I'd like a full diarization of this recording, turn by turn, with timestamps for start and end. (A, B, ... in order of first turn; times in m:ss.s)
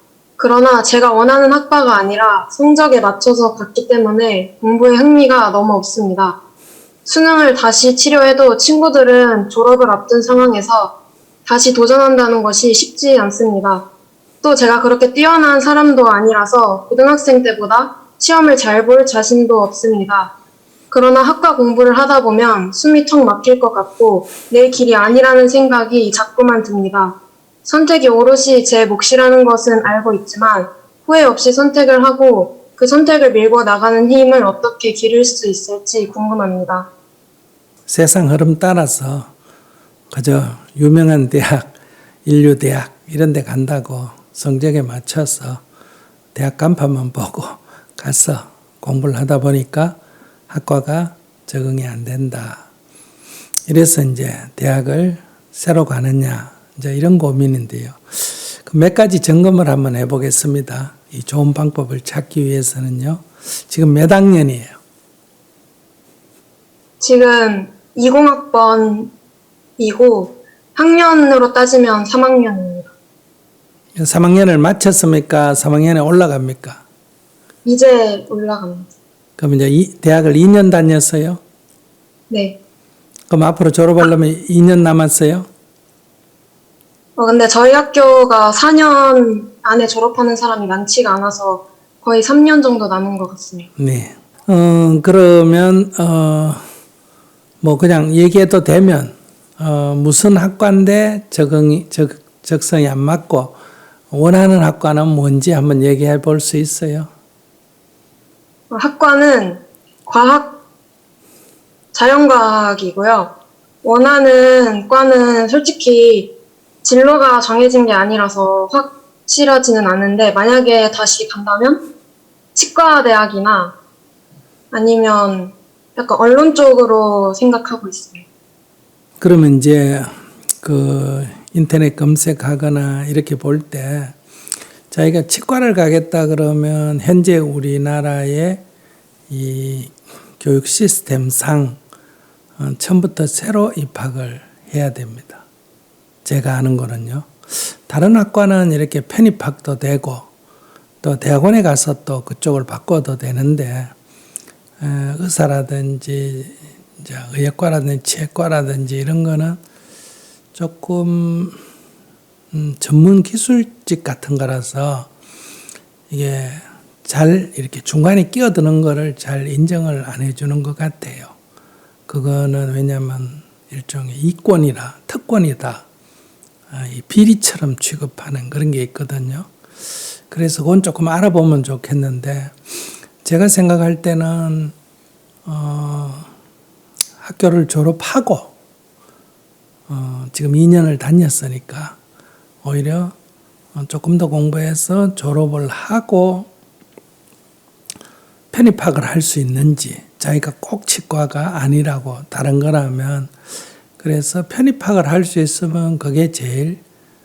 0:00.4-0:06.4 A
0:07.0-0:10.9 A
0:11.4-0:13.9 A
0:14.4-0:20.3 A
0:20.9-0:36.9 A
0:37.9-0:39.3 B
0:40.1-0:41.7 B
0:42.2-0:45.6 B
0:46.4-0:50.0 B
0:50.5-0:52.6 B
0:53.7-1:04.8 B
1:07.0-1:09.1 A
1:09.8-1:12.9 A
1:14.0-1:16.8 B
1:17.6-1:18.9 A
1:19.4-1:21.4 B
1:22.3-1:22.6 A
1:23.3-1:25.5 B
1:27.2-1:33.7 A
1:33.8-1:36.6 B
1:37.6-1:43.6 B
1:44.1-1:47.1 B
1:48.7-1:50.6 A
1:51.9-2:01.8 A
2:02.6-2:03.8 A
2:04.7-2:08.3 A
2:09.2-2:14.2 B
2:14.9-2:18.6 B
2:19.3-2:21.8 B
2:22.6-2:25.4 B
2:26.2-2:30.3 B
2:31.0-2:33.9 B
2:34.8-2:39.6 B
2:40.5-2:41.6 B
2:42.5-2:45.1 B
2:46.1-2:51.3 B
2:52.1-2:55.8 B
2:56.7-2:59.5 B
3:00.3-3:02.6 B
3:03.2-3:04.8 B
3:05.5-3:06.3 B
3:07.2-3:08.5 B
3:09.9-3:12.0 B
3:12.6-3:13.2 B
3:13.8-3:16.5 B
3:18.5-3:23.3 B
3:24.0-3:26.8 B